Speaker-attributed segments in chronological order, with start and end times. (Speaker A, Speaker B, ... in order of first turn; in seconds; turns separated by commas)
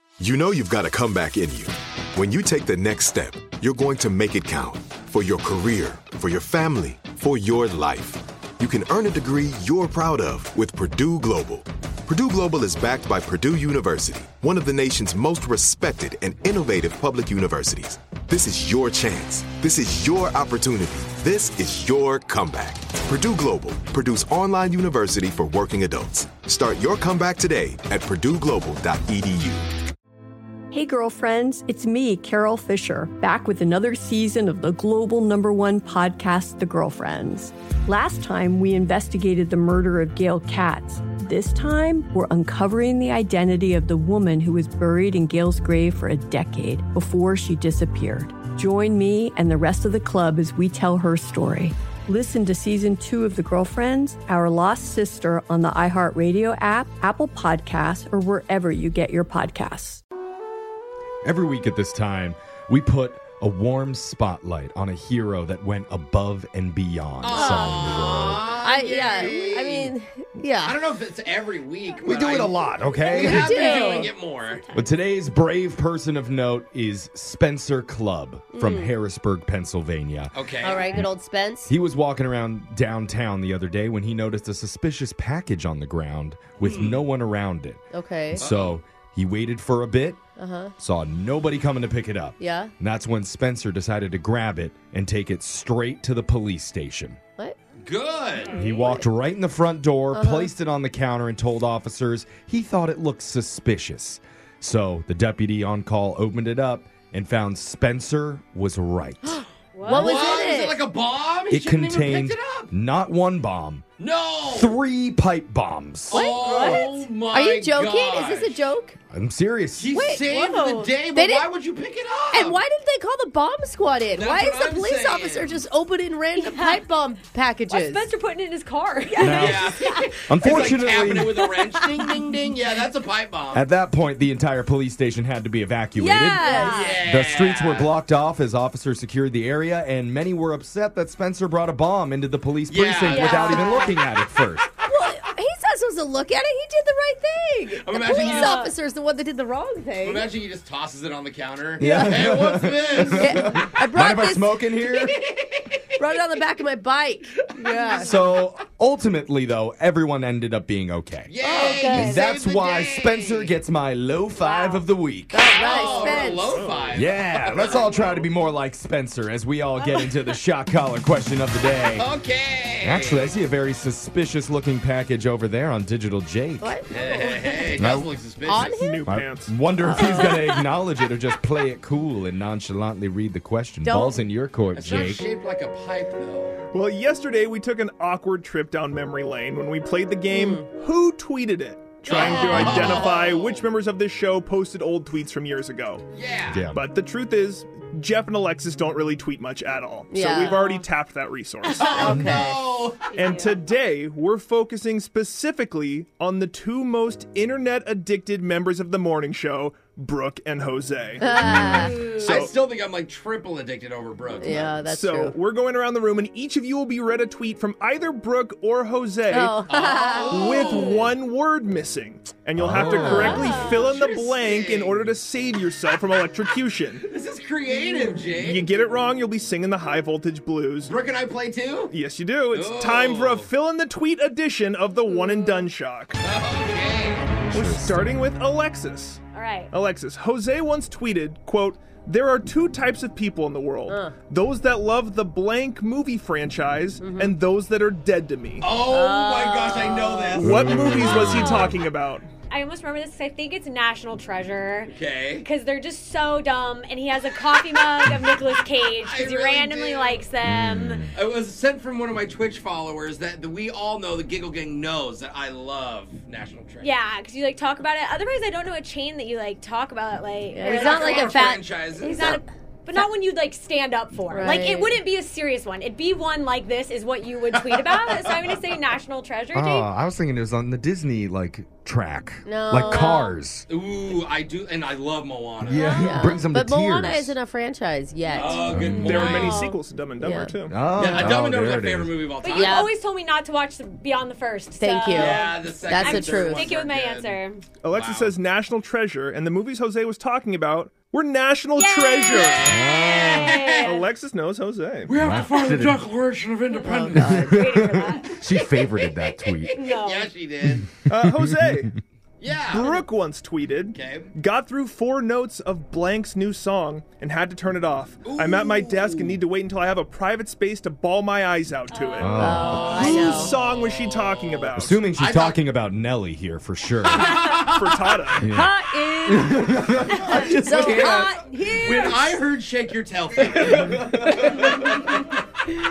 Speaker A: 0.2-29.7, Speaker B: 30.7-60.0, Speaker C: 61.2-68.5, Speaker D: 67.2-69.9, Speaker E: 67.3-70.9, Speaker D: 70.6-74.7, Speaker C: 72.0-73.6, Speaker E: 73.1-74.1, Speaker F: 73.4-74.8, Speaker C: 74.7-81.1, Speaker E: 78.5-78.9, Speaker D: 80.3-80.9, Speaker E: 80.6-81.7, Speaker C: 81.6-90.2, Speaker D: 86.6-87.0, Speaker E: 87.9-88.5, Speaker D: 88.4-88.8, Speaker E: 90.4-90.7, Speaker C: 90.8-97.2, Speaker E: 92.4-92.7, Speaker D: 97.8-98.6, Speaker F: 98.4-98.8, Speaker C: 98.5-109.4, Speaker E: 98.7-99.1, Speaker E: 100.1-100.5, Speaker E: 109.2-110.8, Speaker F: 109.7-110.3, Speaker D: 109.9-112.7, Speaker C: 111.5-113.8, Speaker D: 114.0-114.8, Speaker C: 114.5-116.3, Speaker D: 116.1-118.6, Speaker E: 116.1-119.0, Speaker F: 116.4-116.8, Speaker C: 119.1-119.9, Speaker D: 119.7-122.6, Speaker E: 119.9-121.5, Speaker E: 122.3-128.1, Speaker D: 124.1-125.6, Speaker F: 126.3-126.8, Speaker F: 127.7-130.1, Speaker C: 129.2-131.3, Speaker D: 129.2-133.7, Speaker F: 131.3-132.1, Speaker C: 133.5-136.5, Speaker E: 135.9-137.0, Speaker F: 136.3-137.0, Speaker D: 136.6-137.9, Speaker C: 137.0-144.7, Speaker D: 142.7-143.9, Speaker E: 143.1-143.9, Speaker E: 144.8-150.3, Speaker D: 147.8-148.7, Speaker F: 148.1-148.7, Speaker D: 150.0-153.7, Speaker C: 151.8-155.2, Speaker E: 151.8-152.1, Speaker E: 153.1-154.6, Speaker D: 154.9-155.8, Speaker E: 156.0-158.2, Speaker D: 157.7-158.3, Speaker C: 157.9-161.3, Speaker D: 161.3-163.5, Speaker E: 161.4-162.2, Speaker F: 161.7-162.2, Speaker C: 161.8-165.5, Speaker F: 164.4-164.8, Speaker E: 165.3-166.6, Speaker D: 165.5-168.3, Speaker F: 165.6-166.0, Speaker G: 165.9-167.0, Speaker C: 166.9-172.1, Speaker F: 169.8-170.2, Speaker D: 172.0-173.3, Speaker C: 172.8-176.8, Speaker E: 176.6-177.7, Speaker D: 176.9-178.7, Speaker C: 177.8-178.1, Speaker E: 178.4-179.0, Speaker G: 178.5-179.5, Speaker C: 179.1-185.2, Speaker E: 179.8-180.3, Speaker F: 179.9-180.6, Speaker E: 183.8-184.2, Speaker D: 184.7-186.6, Speaker G: 186.7-196.0, Speaker E: 190.3-190.7, Speaker D: 192.1-193.6, Speaker C: 192.5-192.8, Speaker D: 196.1-196.6, Speaker C: 196.5-196.8, Speaker G: 196.7-202.4, Speaker E: 200.1-200.8, Speaker D: 201.8-203.1, Speaker E: 201.9-202.5, Speaker F: 203.1-203.6, Speaker G: 203.1-212.6, Speaker E: 211.2-211.9, Speaker C: 211.5-211.8, Speaker F: 212.0-212.4, Speaker D: 212.0-214.8, Speaker E: 214.4-215.3, Speaker G: 214.8-219.7, Speaker E: 219.3-220.7, Speaker D: 219.6-221.0, Speaker G: 220.3-227.1, Speaker F: 220.7-221.0, Speaker C: 222.6-223.6, Speaker E: 223.0-223.6, Speaker F: 223.1-223.9, Speaker D: 223.3-225.1, Speaker D: 227.0-228.8, Speaker G: 228.3-230.9, Speaker D: 230.8-231.9, Speaker G: 231.9-236.2, Speaker D: 232.5-233.5, Speaker F: 235.1-235.6, Speaker D: 236.2-237.3, Speaker C: 237.4-238.2, Speaker G: 237.5-248.7, Speaker F: 239.3-239.7, Speaker E: 243.9-244.1, Speaker E: 247.0-247.3, Speaker D: 248.6-251.6, Speaker E: 248.8-250.5, Speaker G: 250.4-252.3, Speaker C: 250.4-251.7, Speaker F: 252.4-261.1, Speaker D: 254.9-255.4, Speaker D: 258.9-260.3, Speaker C: 260.4-261.1, Speaker D: 261.1-266.9, Speaker F: 266.8-279.9, Speaker E: 270.5-272.4, Speaker D: 270.7-272.4, Speaker E: 274.3-275.0, Speaker D: 277.5-278.6, Speaker C: 279.5-283.7, Speaker E: 282.4-283.3, Speaker D: 283.7-286.0, Speaker C: 285.6-287.4, Speaker F: 285.8-286.0, Speaker E: 285.8-288.7, Speaker D: 288.3-289.6, Speaker F: 288.4-289.7, Speaker C: 288.7-289.6, Speaker G: 289.0-290.8, Speaker E: 289.3-291.3, Speaker C: 290.7-292.1, Speaker D: 290.9-292.9, Speaker F: 292.4-297.6, Speaker E: 292.5-292.9, Speaker E: 294.8-296.7, Speaker D: 295.1-298.3, Speaker G: 297.8-302.8, Speaker F: 301.7-304.1, Speaker D: 302.4-303.9, Speaker C: 302.6-303.5, Speaker G: 303.8-305.1, Speaker D: 305.1-307.4, Speaker C: 305.2-306.1, Speaker F: 306.7-308.4, Speaker E: 306.8-307.6, Speaker C: 307.1-309.7, Speaker D: 308.5-310.9, Speaker F: 309.7-310.3, Speaker C: 311.1-311.9, Speaker G: 311.1-311.9, Speaker D: 312.4-313.1, Speaker G: 312.5-325.0, Speaker D: 313.9-314.3, Speaker D: 318.2-319.4, Speaker F: 321.9-323.1, Speaker C: 322.2-322.9, Speaker E: 322.3-323.5, Speaker D: 322.5-325.6, Speaker C: 324.7-327.5, Speaker D: 327.0-328.4, Speaker G: 327.6-328.5, Speaker C: 328.4-331.3, Speaker E: 328.4-332.4, Speaker D: 330.5-335.2, Speaker C: 333.6-334.8